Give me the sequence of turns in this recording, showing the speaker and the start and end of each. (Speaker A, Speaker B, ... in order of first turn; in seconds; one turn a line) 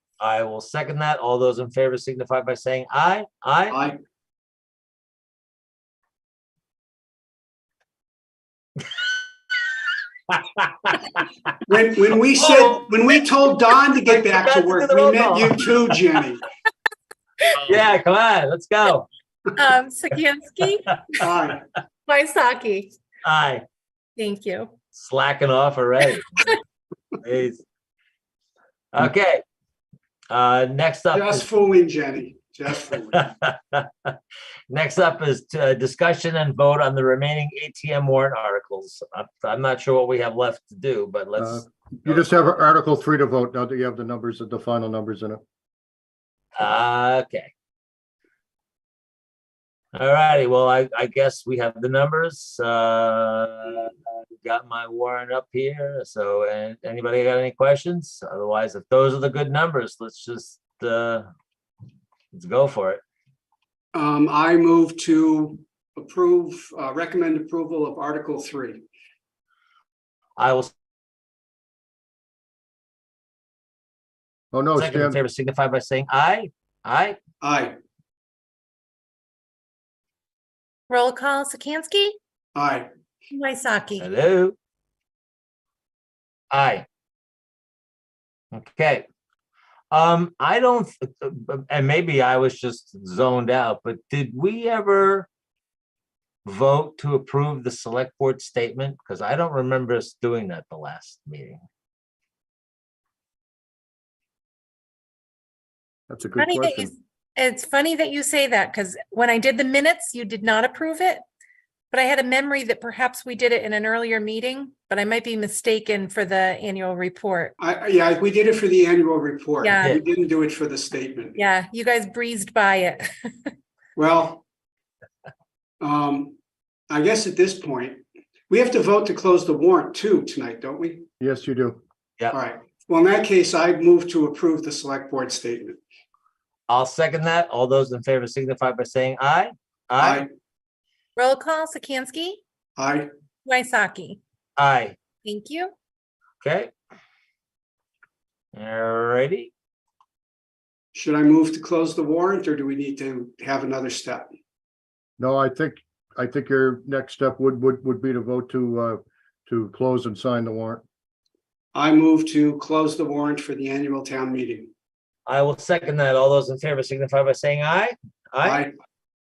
Speaker A: 0.2-3.8
Speaker A: 10.3-11.1
Speaker B: 11.7-16.4
Speaker A: 12.4-12.8
Speaker A: 14.1-16.0
Speaker A: 17.6-19.1
Speaker C: 19.5-21.2
Speaker B: 21.2-21.6
Speaker C: 22.1-22.9
Speaker A: 23.2-23.6
Speaker C: 24.2-24.7
Speaker A: 24.9-26.5
Speaker A: 27.2-27.6
Speaker A: 28.9-29.4
Speaker A: 30.3-31.4
Speaker B: 31.1-33.3
Speaker A: 33.1-34.1
Speaker A: 34.7-42.6
Speaker D: 41.4-45.4
Speaker A: 46.6-47.5
Speaker A: 49.9-53.9
Speaker A: 54.4-61.3
Speaker A: 62.3-63.0
Speaker B: 63.9-68.8
Speaker A: 70.4-70.7
Speaker D: 74.5-75.2
Speaker A: 74.8-77.2
Speaker B: 77.4-77.8
Speaker C: 80.9-82.2
Speaker B: 82.5-82.9
Speaker C: 83.3-84.0
Speaker A: 84.0-84.5
Speaker A: 86.5-86.8
Speaker A: 88.5-89.0
Speaker A: 89.9-95.3
Speaker A: 96.4-101.6
Speaker D: 106.1-106.9
Speaker C: 106.4-111.2
Speaker C: 111.9-117.5
Speaker B: 117.6-121.4
Speaker C: 119.6-120.0
Speaker C: 121.3-123.5
Speaker B: 124.0-124.4
Speaker B: 125.8-126.4
Speaker B: 126.9-131.1
Speaker D: 131.2-131.8
Speaker B: 132.3-135.8
Speaker A: 136.7-140.2
Speaker B: 140.0-140.3
Speaker C: 141.2-142.4
Speaker B: 142.8-143.1
Speaker C: 143.4-144.2
Speaker A: 144.6-144.9
Speaker C: 145.2-145.7
Speaker A: 146.4-146.7
Speaker A: 148.5-149.5
Speaker B: 150.9-154.3
Speaker D: 155.2-160.8
Speaker B: 161.7-164.7
Speaker A: 165.2-168.7
Speaker B: 168.4-168.7